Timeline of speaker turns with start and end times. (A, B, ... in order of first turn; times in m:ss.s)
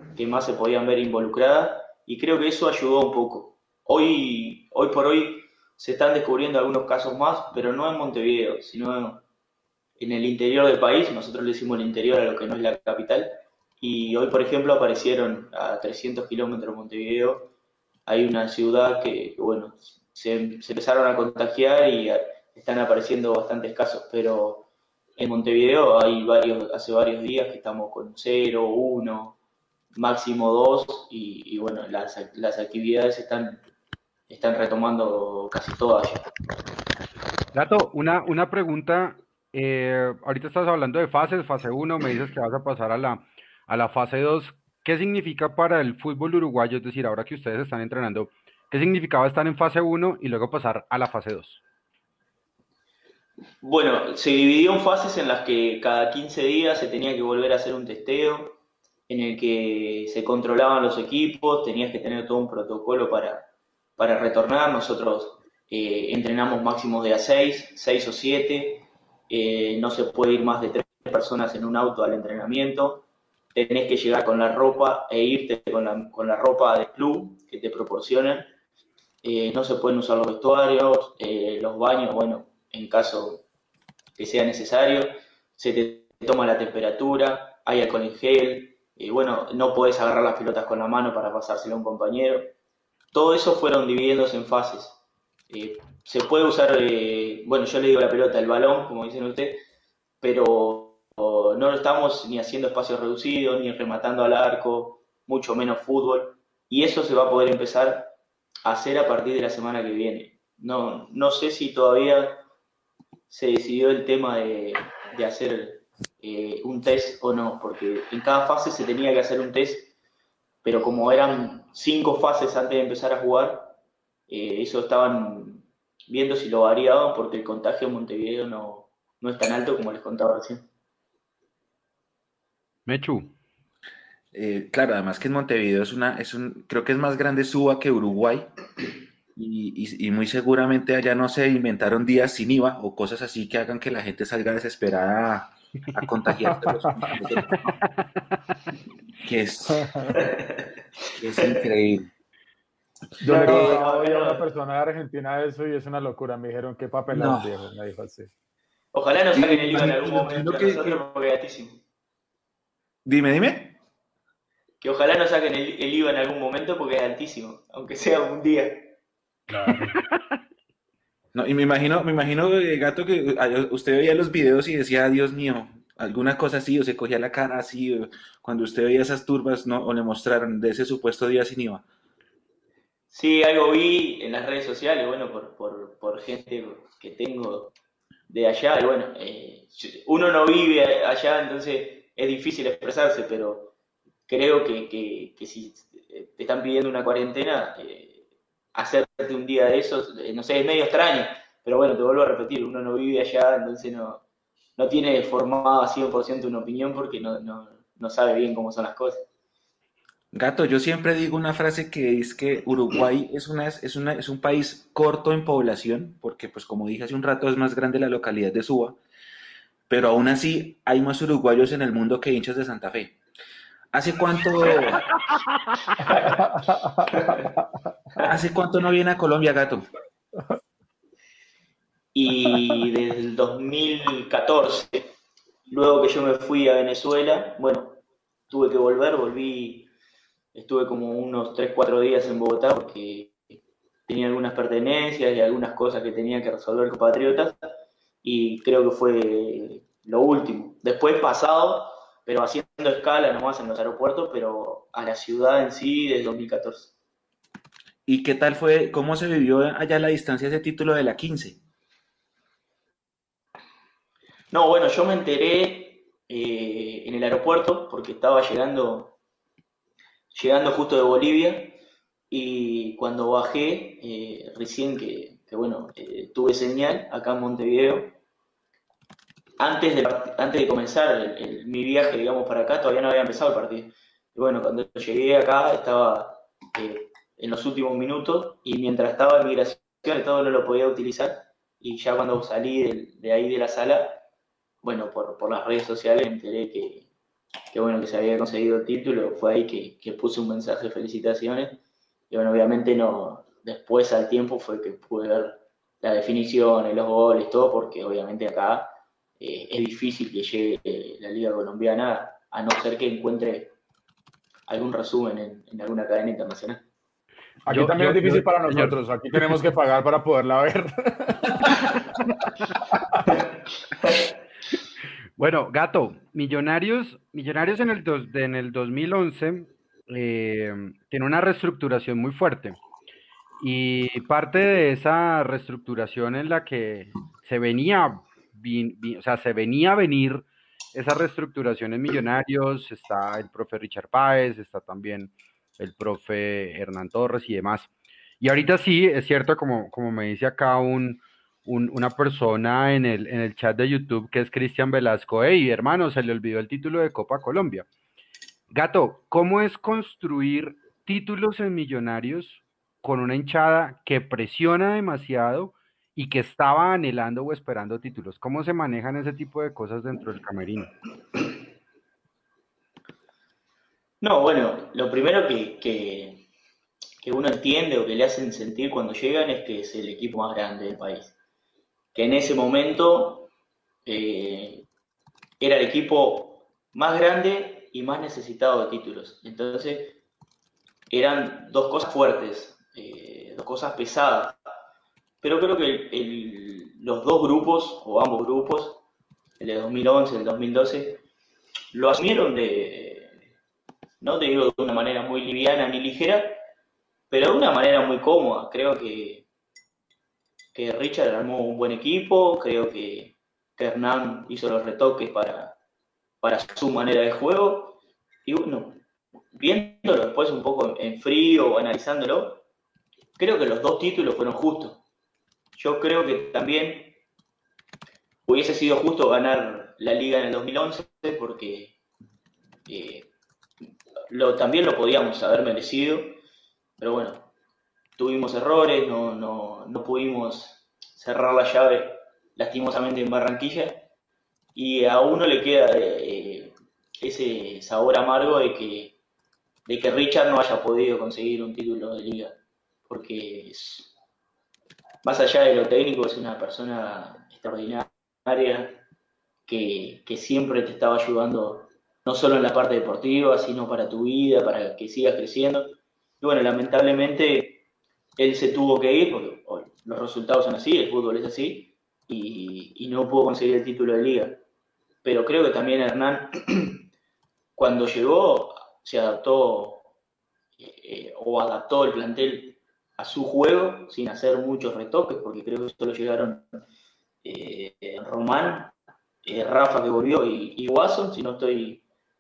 0:00.2-0:09.2 A
0:10.0-0:17.5 A
0:18.1-0:29.4 A
0:29.9-0:33.6 A
0:34.3-0:36.3 A
0:37.5-0:51.6 B
0:53.6-1:18.5 A
1:19.2-1:23.4 A
1:24.2-1:32.5 A
1:33.1-1:39.6 A
1:40.2-1:52.4 A
1:53.3-1:59.9 A
2:00.6-2:03.8 A
2:04.3-2:10.7 A
2:12.9-2:13.3 B
2:14.3-2:18.5 C
2:19.4-2:27.6 C
2:26.5-2:27.2 D
2:29.2-2:30.2 C
2:29.7-2:30.2 D
2:30.2-2:30.6 A
2:31.2-2:32.1 C
2:33.2-2:38.3 D
2:33.2-2:34.4 A
2:33.3-2:33.8 C
2:37.1-2:37.6 C
2:38.9-2:41.8 A
2:39.3-2:41.0 C
2:43.0-2:43.8 C
2:44.8-2:49.0 A
2:51.3-3:01.8 C
3:03.1-3:07.7 A
3:08.3-3:13.7 A
3:14.3-3:18.2 A
3:18.8-3:24.2 A
3:24.8-3:29.3 A
3:30.3-3:39.0 C
3:39.9-3:43.2 C
3:43.9-3:45.1 C
3:46.2-3:47.1 D
3:48.2-3:49.9 C
3:52.2-3:55.1 A
3:55.7-3:59.9 A
4:00.5-4:07.7 A
4:08.2-4:16.9 A
4:18.1-4:21.6 C
4:24.5-4:29.2 A
4:30.3-4:31.8 A
4:32.3-4:38.2 A
4:39.6-4:54.2 A
4:54.8-4:57.1 A
4:57.7-5:13.7 A
5:14.7-5:16.8 A
5:17.7-5:21.6 D
5:17.7-5:19.6 B
5:25.4-5:32.8 B
5:33.6-5:47.9 B
5:48.4-5:57.9 B
5:58.7-6:10.9 B
6:14.2-6:16.4 A
6:17.2-6:21.3 A
6:22.1-6:23.5 A
6:24.1-6:24.8 A
6:25.6-6:30.2 A
6:31.1-6:34.6 A
6:35.4-6:39.0 A
6:39.6-6:41.2 A
6:41.9-6:43.4 A
6:44.2-6:46.6 A
6:47.3-6:49.5 A
6:50.7-6:55.8 A
6:56.4-6:59.0 A
6:59.6-7:02.6 A
7:03.4-7:05.0 A
7:05.8-7:07.2 A
7:08.5-7:11.9 A
7:12.9-7:13.3 A
7:14.3-7:16.4 A
7:17.0-7:17.5 A
7:18.2-7:24.1 A
7:24.8-7:29.2 A
7:29.9-7:32.6 A
7:33.1-7:34.1 A
7:35.2-7:39.0 A
7:39.7-7:47.8 A
7:48.4-7:54.6 A
7:55.2-7:57.0 A
7:57.8-8:00.1 A
8:00.8-8:06.7 A
8:07.4-8:08.9 A
8:09.4-8:12.0 A